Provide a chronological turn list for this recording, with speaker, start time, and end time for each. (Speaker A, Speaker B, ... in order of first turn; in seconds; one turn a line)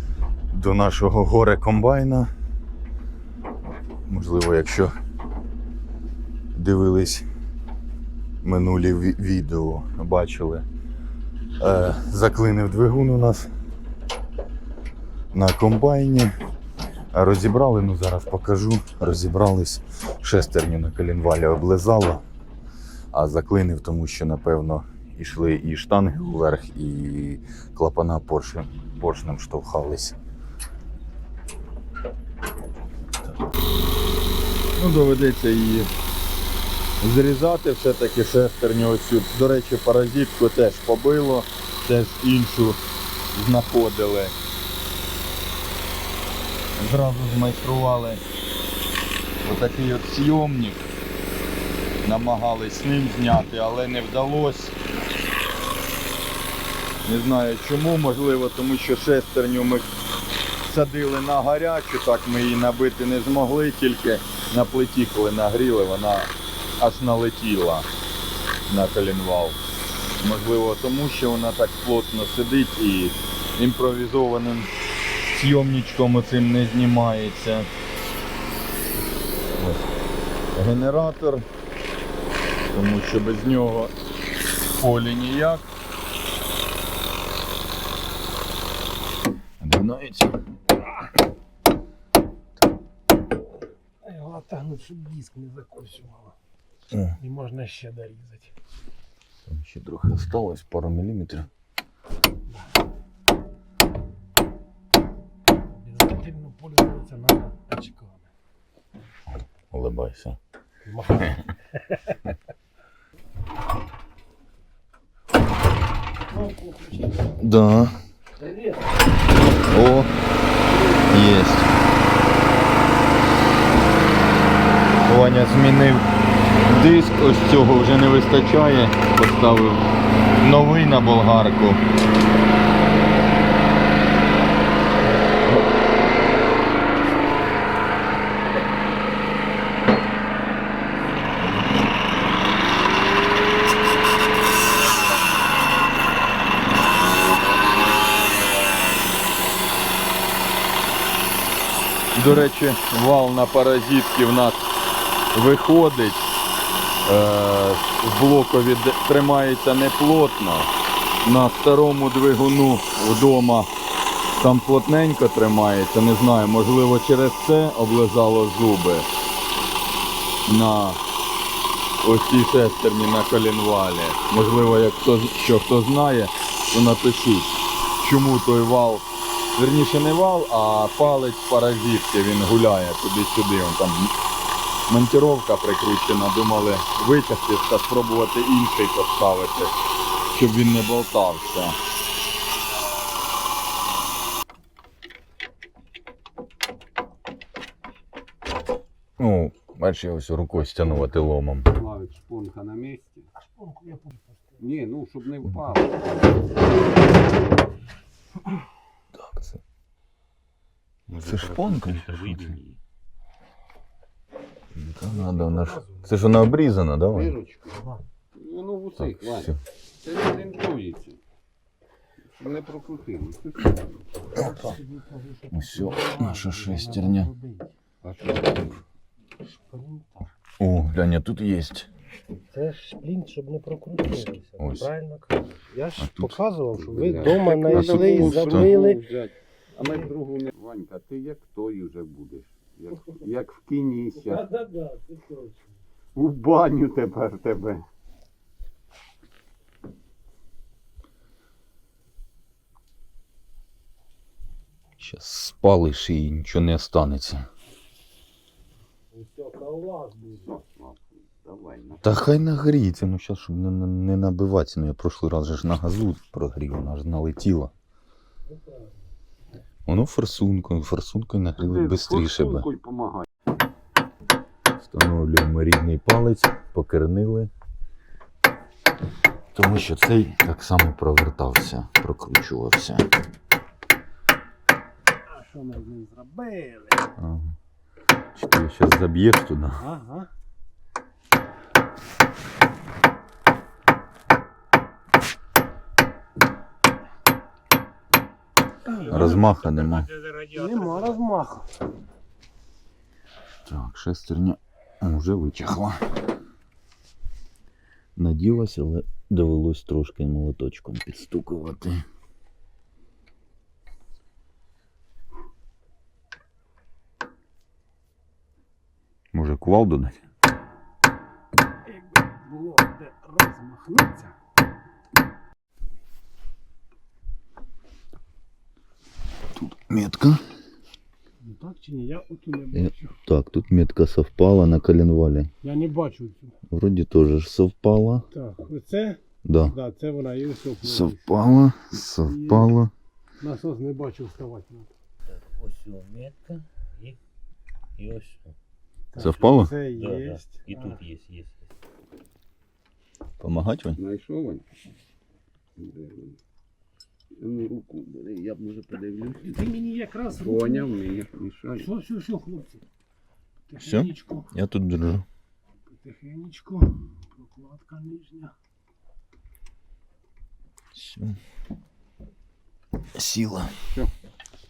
Speaker A: 0.5-2.3
Speaker A: 4.1-4.9
Speaker A: 6.5-7.2
Speaker A: 8.4-10.6
Speaker A: 11.6-13.5
Speaker A: 15.3-16.3
Speaker A: 17.1-22.2
Speaker A: 23.1-30.1
Speaker A: 34.8-35.9
Speaker A: 37.0-42.8
Speaker A: 43.3-44.3
Speaker A: 46.8-48.2
Speaker A: 49.4-50.8
Speaker A: 52.0-54.7
Speaker A: 57.0-59.9
Speaker A: 60.6-67.9
Speaker A: 68.7-69.6
Speaker A: 70.2-74.7
Speaker A: 75.3-77.7
Speaker A: 79.6-79.9
Speaker A: 80.5-81.4
Speaker A: 82.7-83.9
Speaker A: 84.8-85.7
Speaker A: 89.6-90.3
Speaker B: 94.0-96.3
Speaker B: 97.2-98.5
Speaker A: 99.5-101.5
Speaker B: 105.8-108.3
Speaker A: 109.7-110.4
Speaker B: 110.9-111.4
Speaker A: 117.2-118.0
Speaker A: 119.6-120.1
Speaker A: 121.1-121.7
Speaker A: 125.0-126.0
Speaker A: 126.6-131.8
Speaker A: 152.1-154.6
Speaker A: 155.3-156.3
Speaker A: 157.0-160.7
Speaker A: 161.2-163.7
Speaker A: 164.3-169.1
Speaker A: 170.4-171.0
Speaker A: 172.0-184.1
Speaker A: 184.9-189.8
Speaker A: 190.3-191.8
Speaker A: 199.2-201.7
Speaker C: 201.7-203.3
Speaker B: 203.6-204.2
Speaker C: 204.6-206.0
Speaker A: 209.2-209.6
Speaker D: 211.1-212.7
Speaker A: 211.2-212.5
Speaker A: 214.7-217.3
Speaker B: 215.2-215.7
Speaker C: 217.1-221.2
Speaker A: 219.0-219.6
Speaker C: 222.2-223.7
Speaker B: 224.4-227.7
Speaker A: 225.5-227.3
Speaker C: 228.0-228.8
Speaker B: 229.7-230.3
Speaker A: 230.6-231.9
Speaker B: 232.5-239.0
Speaker A: 234.6-234.9
Speaker A: 236.0-236.4
Speaker C: 236.7-244.5
Speaker A: 237.4-238.7
Speaker B: 244.5-245.5
Speaker C: 246.1-247.8
Speaker A: 255.0-257.4
Speaker B: 259.1-260.5
Speaker C: 260.5-262.2
Speaker A: 262.0-267.7
Speaker A: 269.9-272.7
Speaker C: 271.6-273.2
Speaker A: 274.8-277.5
Speaker A: 279.5-283.1
Speaker B: 285.3-287.1
Speaker A: 287.2-287.5
Speaker A: 288.4-289.8
Speaker B: 289.8-290.3
Speaker D: 298.9-301.1
Speaker B: 299.0-299.3
Speaker A: 299.0-300.1
Speaker B: 300.6-301.7
Speaker A: 303.6-306.0
Speaker A: 308.1-312.0
Speaker A: 319.3-320.2
Speaker B: 321.9-324.3
Speaker A: 329.6-330.4
Speaker B: 331.4-333.1
Speaker A: 332.7-335.5
Speaker B: 335.6-336.5
Speaker A: 336.7-338.3
Speaker B: 338.3-341.2
Speaker A: 339.4-339.8
Speaker A: 340.8-342.9
Speaker B: 342.2-342.7
Speaker B: 343.4-344.9
Speaker D: 345.4-347.1
Speaker D: 348.0-348.5
Speaker B: 349.1-351.0
Speaker A: 349.2-349.7
Speaker D: 350.0-351.5
Speaker A: 353.4-354.0
Speaker C: 354.0-354.6
Speaker C: 355.8-356.4
Speaker C: 357.4-359.6
Speaker B: 359.5-360.9
Speaker C: 360.3-361.9
Speaker B: 361.8-362.8
Speaker B: 363.7-364.4
Speaker A: 363.8-365.2
Speaker B: 366.0-368.5
Speaker A: 370.9-371.4
Speaker A: 373.1-373.8